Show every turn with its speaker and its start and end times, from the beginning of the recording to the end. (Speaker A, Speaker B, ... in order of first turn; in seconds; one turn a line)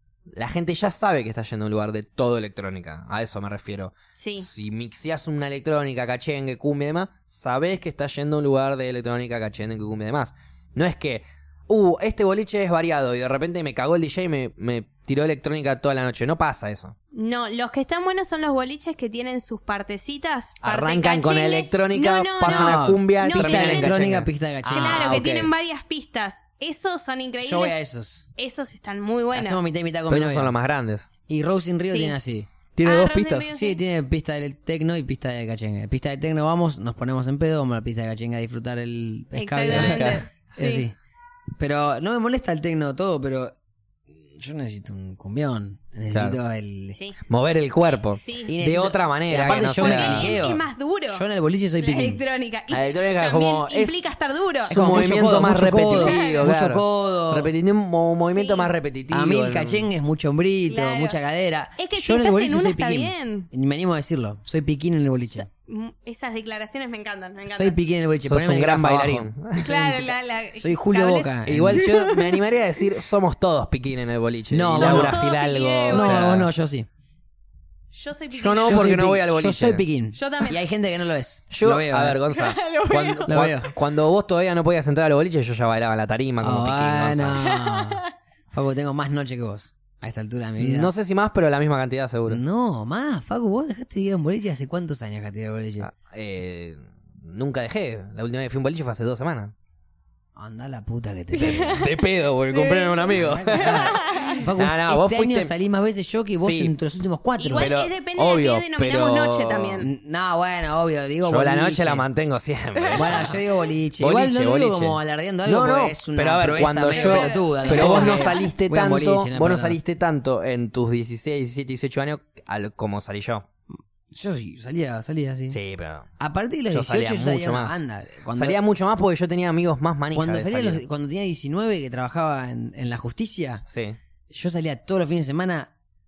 Speaker A: 0.3-17.0
Speaker B: 4.2-4.5
Speaker B: 17.1-24.0
Speaker A: 20.6-25.5
Speaker C: 22.4-25.3
Speaker B: 24.7-27.8
Speaker C: 27.4-28.2
Speaker B: 28.4-29.7
Speaker C: 29.3-30.5
Speaker A: 30.1-31.1
Speaker C: 31.3-32.5
Speaker B: 31.9-32.1
Speaker A: 32.8-33.5
Speaker B: 32.8-33.8
Speaker C: 33.5-41.0
Speaker B: 39.4-40.9
Speaker A: 39.7-40.2
Speaker C: 41.6-43.5
Speaker C: 44.3-47.0
Speaker A: 46.1-46.4
Speaker A: 47.3-50.4
Speaker B: 47.9-48.5
Speaker C: 48.5-52.2
Speaker B: 49.5-51.2
Speaker B: 51.8-54.7
Speaker A: 52.7-54.0
Speaker A: 54.7-59.9
Speaker C: 54.7-57.5
Speaker B: 56.0-56.5
Speaker B: 58.3-58.7
Speaker C: 59.1-65.5
Speaker B: 60.7-61.2
Speaker B: 61.8-63.5
Speaker B: 65.3-67.8
Speaker C: 67.5-69.8
Speaker A: 68.2-70.0
Speaker B: 69.6-72.4
Speaker C: 70.6-71.9
Speaker A: 71.5-76.5
Speaker C: 74.5-75.2
Speaker B: 74.7-76.2
Speaker C: 75.9-76.9
Speaker B: 77.9-79.0
Speaker A: 78.3-79.8
Speaker C: 78.6-82.2
Speaker B: 80.2-80.6
Speaker A: 81.5-87.4
Speaker B: 82.3-83.3
Speaker C: 83.3-83.7
Speaker C: 86.4-90.9
Speaker B: 87.5-88.1
Speaker A: 90.6-92.4
Speaker C: 92.3-95.9
Speaker A: 95.8-99.5
Speaker C: 100.4-101.9
Speaker A: 101.4-105.5
Speaker B: 101.4-104.4
Speaker C: 103.1-107.7
Speaker A: 106.4-106.7
Speaker B: 107.4-109.9
Speaker A: 107.6-109.9
Speaker C: 109.8-112.0
Speaker A: 111.2-113.4
Speaker B: 112.8-113.4
Speaker C: 113.0-119.8
Speaker A: 114.0-123.5
Speaker B: 116.9-118.5
Speaker C: 124.1-125.6
Speaker A: 125.5-126.1
Speaker C: 126.2-128.6
Speaker A: 126.7-127.8
Speaker A: 128.3-130.8
Speaker C: 130.1-133.7
Speaker A: 133.7-134.0
Speaker C: 134.3-135.7